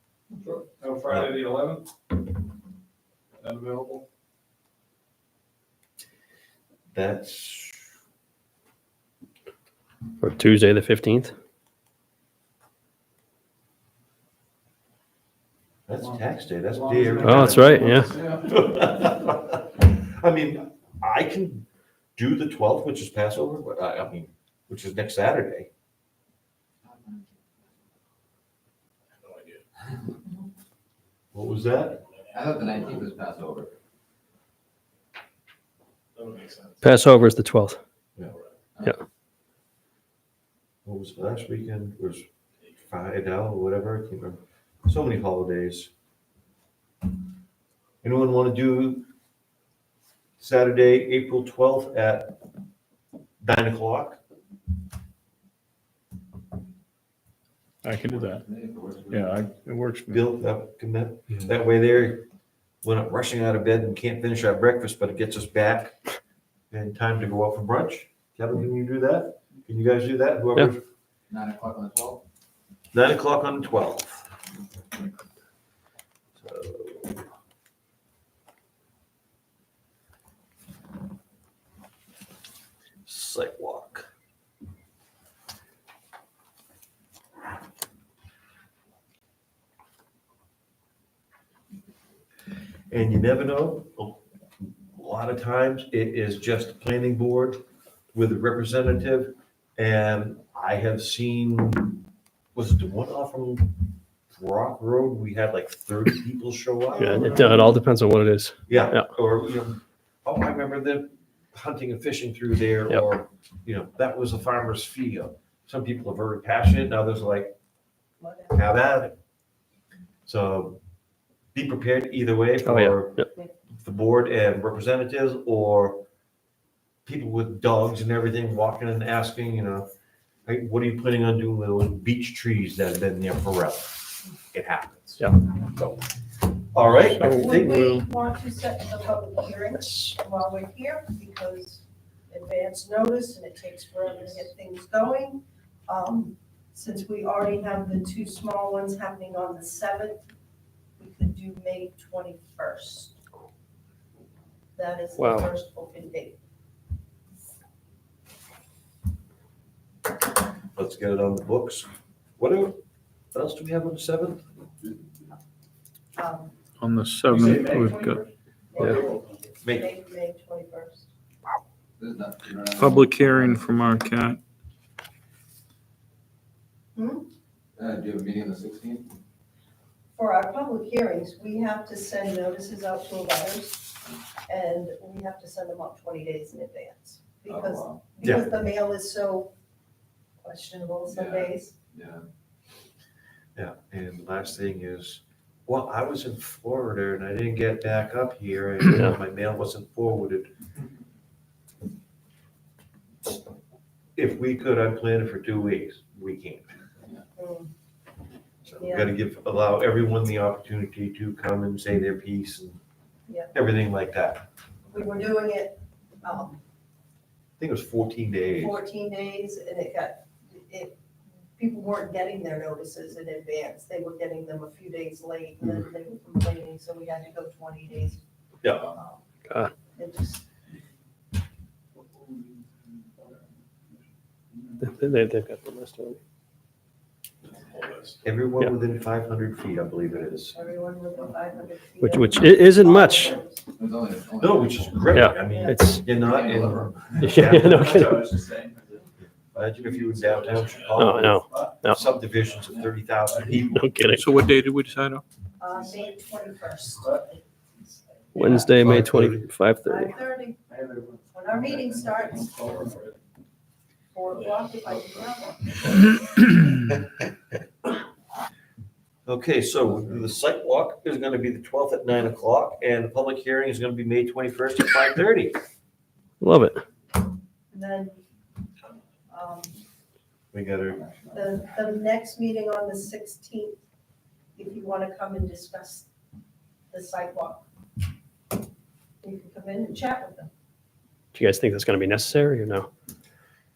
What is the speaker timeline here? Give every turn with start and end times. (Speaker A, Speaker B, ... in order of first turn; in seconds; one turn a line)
Speaker A: 0.7-1.8
Speaker B: 1.1-1.4
Speaker A: 3.4-4.0
Speaker B: 6.9-7.9
Speaker C: 10.2-11.3
Speaker B: 15.9-25.7
Speaker A: 16.8-18.1
Speaker C: 17.2-18.1
Speaker D: 17.9-18.5
Speaker D: 26.8-27.3
Speaker B: 31.3-32.0
Speaker D: 32.3-33.7
Speaker C: 36.8-37.8
Speaker B: 40.8-42.2
Speaker B: 42.8-45.9
Speaker B: 48.0-49.1
Speaker B: 50.4-52.4
Speaker B: 53.4-54.2
Speaker E: 57.8-58.4
Speaker D: 58.0-59.5
Speaker E: 59.1-60.2
Speaker B: 60.1-62.3
Speaker B: 62.8-66.1
Speaker B: 66.7-70.8
Speaker D: 71.3-72.2
Speaker B: 72.9-74.3
Speaker B: 76.4-77.2
Speaker B: 83.0-84.1
Speaker B: 92.9-94.2
Speaker B: 94.9-97.6
Speaker B: 98.1-102.0
Speaker B: 102.5-103.8
Speaker B: 104.3-107.4
Speaker F: 106.9-107.7
Speaker C: 107.0-109.1
Speaker B: 108.7-117.5
Speaker F: 118.2-118.6
Speaker B: 118.5-119.1
Speaker B: 120.2-120.8
Speaker B: 121.5-123.2
Speaker C: 122.6-123.2
Speaker B: 123.8-126.0
Speaker B: 127.0-129.9
Speaker B: 130.5-136.0
Speaker B: 136.7-137.9
Speaker E: 137.2-138.0
Speaker F: 137.2-150.2
Speaker F: 151.0-153.2
Speaker F: 154.8-156.4
Speaker C: 155.2-155.5
Speaker B: 160.8-162.8
Speaker B: 163.3-164.4
Speaker F: 166.2-166.6
Speaker E: 166.8-168.2
Speaker A: 167.3-167.8
Speaker F: 167.4-171.1
Speaker B: 169.6-169.9
Speaker D: 172.0-173.8
Speaker E: 172.8-174.4
Speaker F: 176.9-177.3
Speaker D: 177.8-179.2
Speaker F: 180.1-189.5
Speaker D: 187.5-188.0
Speaker B: 188.2-188.5
Speaker F: 190.4-191.7
Speaker D: 191.1-192.2
Speaker B: 193.6-200.5
Speaker B: 204.2-206.7
Speaker F: 207.4-207.7
Speaker B: 208.7-212.8
Speaker F: 208.8-209.1
Speaker B: 213.5-214.4
Speaker F: 214.9-216.6
Speaker B: 217.6-218.8
Speaker F: 218.5-221.0
Speaker F: 221.6-228.2
Speaker B: 228.6-228.9
Speaker F: 230.0-230.4
Speaker C: 234.8-236.2
Speaker B: 238.2-240.6
Speaker F: 240.5-243.6
Speaker C: 242.0-243.4
Speaker D: 243.8-245.1
Speaker B: 244.4-248.3
Speaker C: 245.1-246.1
Speaker F: 245.4-245.9
Speaker D: 246.2-247.2
Speaker C: 247.2-248.4
Speaker A: 247.5-249.0
Speaker B: 249.5-253.9
Speaker A: 249.8-251.7
Speaker C: 250.9-252.0
Speaker C: 253.6-254.3
Speaker E: 254.1-255.2
Speaker F: 255.6-257.4
Speaker A: 255.8-256.1
Speaker C: 258.3-260.1
Speaker B: 258.5-259.4
Speaker F: 259.9-260.6
Speaker A: 260.7-263.1
Speaker F: 261.3-262.9
Speaker F: 264.1-265.7
Speaker B: 269.2-275.6
Speaker C: 276.4-276.8
Speaker F: 277.7-278.2
Speaker F: 279.3-279.8
Speaker B: 280.5-281.0
Speaker D: 281.0-281.4
Speaker F: 281.3-283.8
Speaker F: 284.6-286.1
Speaker F: 286.9-287.6
Speaker F: 289.2-290.5
Speaker C: 291.3-292.9